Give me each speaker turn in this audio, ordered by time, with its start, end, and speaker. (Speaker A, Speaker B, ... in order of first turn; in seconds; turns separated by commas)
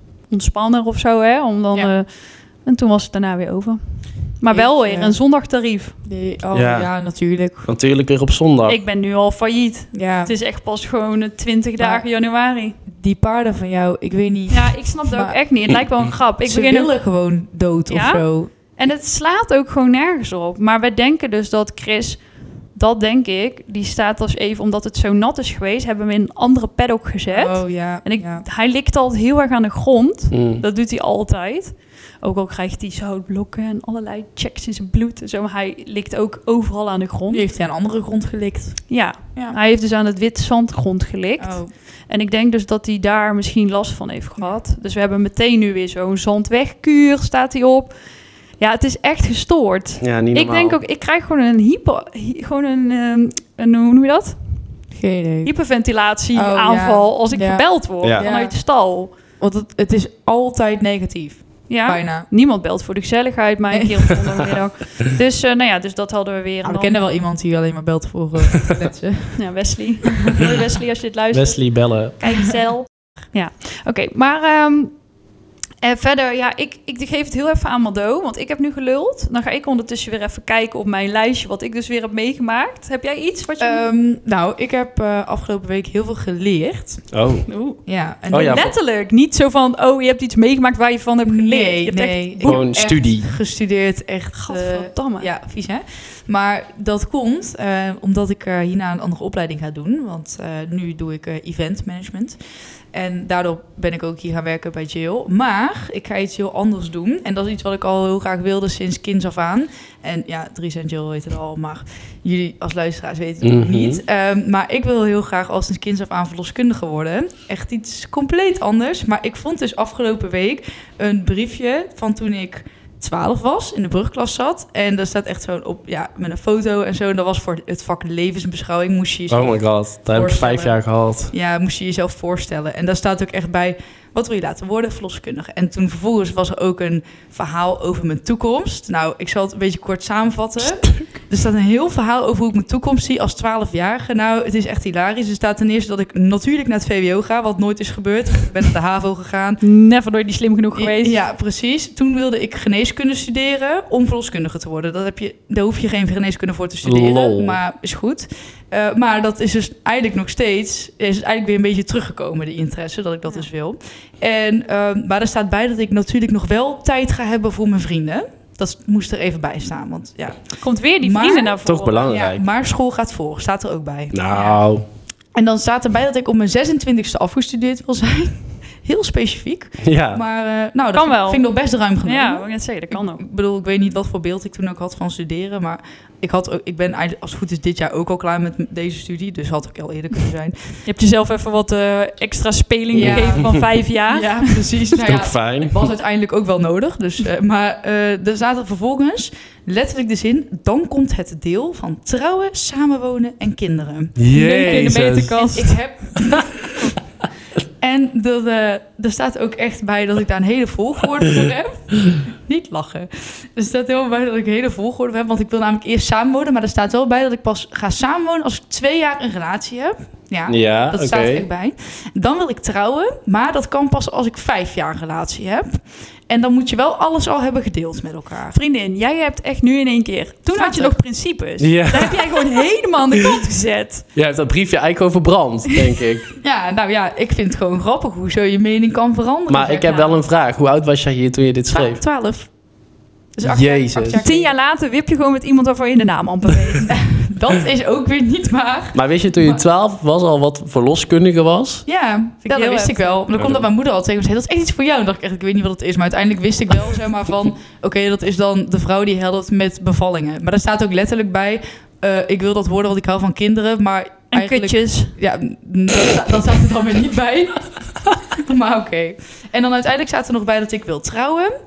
Speaker A: 0.3-6.0, Speaker B: 4.5-5.2, Speaker B: 6.0-7.7, Speaker C: 6.5-8.8, Speaker A: 8.7-12.8, Speaker B: 9.9-10.3, Speaker B: 11.8-12.1, Speaker B: 12.9-15.4, Speaker A: 14.5-16.9, Speaker B: 16.4-18.5, Speaker A: 17.9-22.2, Speaker A: 22.7-37.4, Speaker B: 27.3-28.4, Speaker C: 30.3-30.6, Speaker B: 37.3-39.6, Speaker A: 38.9-48.0, Speaker B: 41.4-41.7, Speaker A: 48.6-54.4, Speaker C: 50.0-50.8, Speaker B: 54.9-55.5, Speaker A: 55.4-59.1, Speaker B: 56.3-58.6, Speaker C: 58.0-58.3, Speaker B: 59.4-62.3, Speaker A: 61.7-67.0, Speaker B: 66.6-69.5, Speaker A: 69.3-75.0, Speaker C: 71.3-72.5, Speaker A: 75.8-83.8, Speaker B: 83.6-87.1, Speaker C: 87.1-87.5, Speaker A: 87.5-87.8, Speaker B: 87.8-88.7, Speaker C: 88.3-88.7, Speaker A: 88.4-92.6, Speaker B: 91.2-102.4, Speaker C: 92.4-93.3, Speaker A: 94.3-95.3, Speaker B: 102.9-149.6, Speaker C: 113.4-114.0, Speaker C: 129.3-131.3, Speaker A: 149.6-151.2, Speaker B: 150.7-170.4, Speaker C: 156.8-157.6, Speaker A: 170.6-172.2, Speaker B: 171.0-174.6, Speaker C: 171.7-172.4, Speaker C: 174.1-174.8, Speaker B: 175.3-190.8, Speaker C: 179.8-180.2, Speaker A: 180.9-181.5, Speaker A: 182.0-183.2, Speaker A: 190.8-195.0, Speaker B: 192.9-206.8, Speaker C: 192.9-193.5, Speaker C: 195.0-195.9, Speaker C: 204.2-205.4, Speaker A: 204.3-205.8, Speaker B: 207.8-228.6, Speaker C: 220.5-221.4, Speaker A: 228.5-234.1, Speaker B: 230.5-231.0, Speaker C: 231.6-232.5, Speaker C: 234.1-236.3, Speaker B: 236.4-240.2, Speaker C: 239.5-242.0, Speaker B: 241.7-242.5, Speaker B: 243.3-244.5, Speaker C: 243.4-244.2, Speaker A: 244.2-247.0, Speaker B: 246.8-249.6, Speaker C: 248.9-251.8, Speaker B: 251.9-267.6, Speaker A: 252.4-253.2, Speaker C: 253.4-253.6, Speaker A: 264.3-265.1, Speaker B: 268.3-271.5